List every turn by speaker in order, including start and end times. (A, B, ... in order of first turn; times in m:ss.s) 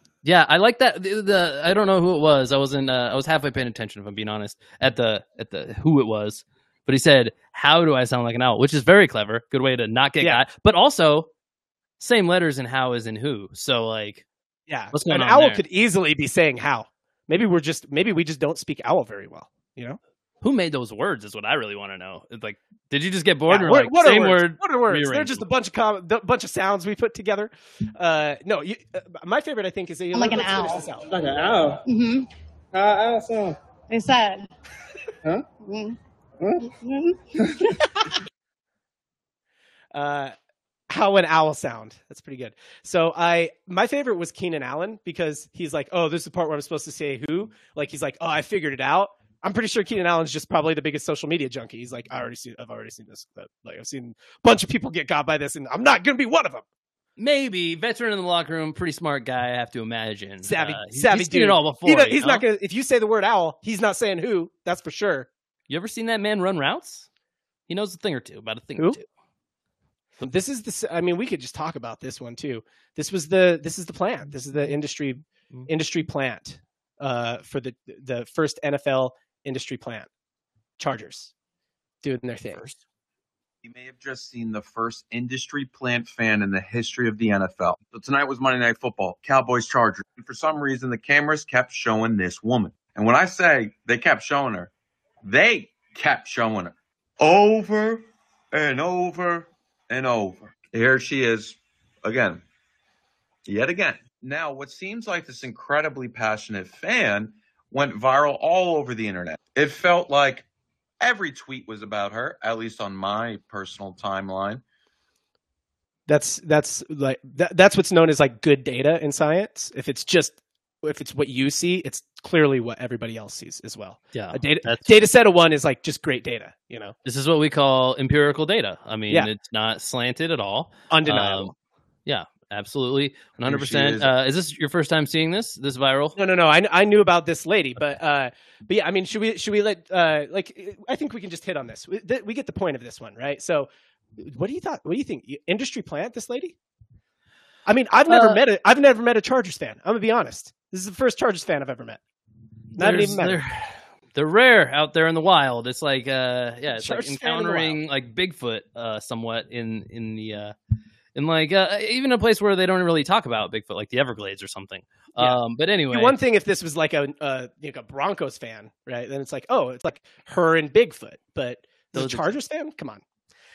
0:00.2-0:11.3 A
0:12.0-0:14.2 A
0:14.7-0:20.0 B
0:14.9-0:15.6 A
0:20.4-0:25.4 A
0:23.5-0:31.1 B
0:30.1-0:30.8 C
0:31.0-0:31.8 D
0:31.9-0:32.3 C
0:32.7-0:33.6 D
0:33.9-0:34.5 C
0:35.6-0:36.0 C
0:36.4-0:36.7 D
0:36.6-0:37.9 C
0:39.9-0:40.3 B
0:40.9-0:56.6 B
0:57.2-1:02.4 A
1:00.4-1:05.3 B
1:05.7-1:07.1 A
1:07.7-1:09.0 A
1:10.2-1:20.1 B
1:20.8-1:21.3 B
1:22.0-1:22.6 B
1:23.6-1:34.7 E
1:35.2-1:42.4 E
1:43.5-1:50.5 E
1:51.0-1:54.6 E
1:56.1-2:06.9 B
2:04.1-2:05.0 A
2:07.0-2:11.5 A
2:10.9-2:11.5 B
2:12.1-2:16.2 A
2:13.5-2:14.1 E
2:16.2-2:26.6 B
2:27.7-2:32.0 B
2:28.1-2:28.4 A
2:32.8-2:33.4 B
2:32.8-2:40.5 A
2:36.8-2:37.8 B
2:41.2-2:46.2 A
2:45.9-2:53.0 B
2:52.0-2:52.3 A